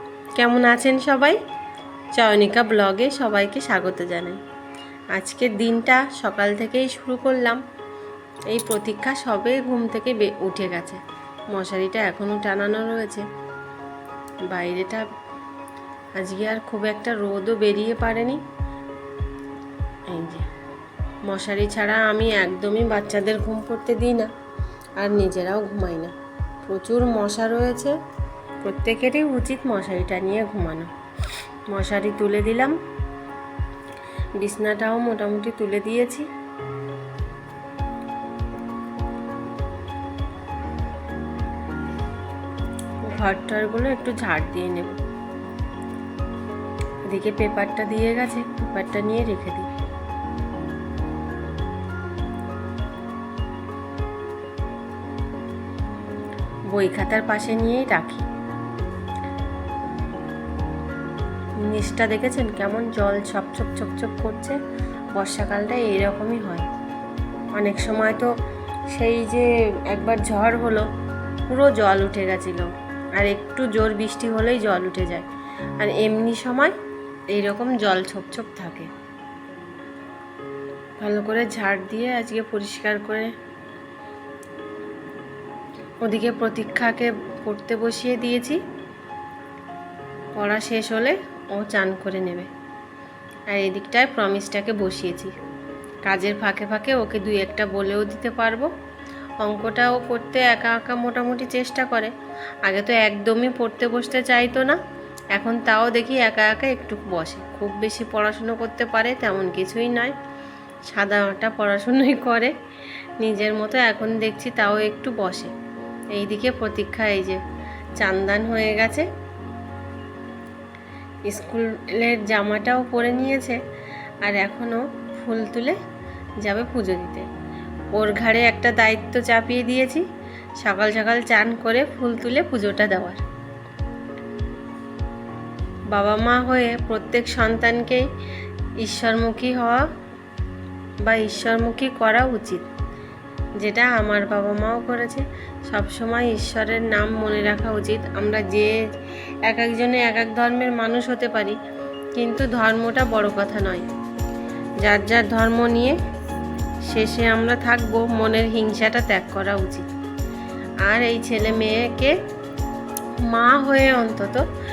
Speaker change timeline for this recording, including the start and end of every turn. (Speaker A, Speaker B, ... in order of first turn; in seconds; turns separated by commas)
Speaker A: 0.3-1.4, Speaker A: 2.1-4.4, Speaker A: 5.1-7.6, Speaker A: 8.5-13.2, Speaker A: 14.5-15.1, Speaker A: 16.2-18.4, Speaker A: 20.1-20.5, Speaker A: 21.2-24.3, Speaker A: 25.0-26.1, Speaker A: 26.6-27.9, Speaker A: 28.6-30.9, Speaker A: 31.7-32.8, Speaker A: 34.4-36.3, Speaker A: 43.0-45.0, Speaker A: 47.1-49.7, Speaker A: 56.7-58.3, Speaker A: 61.6-64.6, Speaker A: 65.1-66.7, Speaker A: 67.6-68.3, Speaker A: 68.9-70.9, Speaker A: 71.5-75.3, Speaker A: 75.8-76.8, Speaker A: 77.3-78.9, Speaker A: 81.0-83.3, Speaker A: 86.0-88.6, Speaker A: 90.4-92.5, Speaker A: 93.5-95.3, Speaker A: 96.1-98.7, Speaker A: 99.4-104.8, Speaker A: 105.3-110.2, Speaker A: 110.9-112.5, Speaker A: 113.2-115.5, Speaker A: 116.1-117.4, Speaker A: 118.0-119.1, Speaker A: 121.2-123.6, Speaker A: 124.2-125.8, Speaker A: 126.4-127.3, Speaker A: 127.9-130.1, Speaker A: 130.6-133.2, Speaker A: 135.9-138.1, Speaker A: 138.8-139.8, Speaker A: 141.0-142.7, Speaker A: 143.6-148.8, Speaker A: 149.4-151.6, Speaker A: 152.1-153.8, Speaker A: 154.8-156.0, Speaker A: 156.8-159.8, Speaker A: 160.8-162.2, Speaker A: 163.2-164.4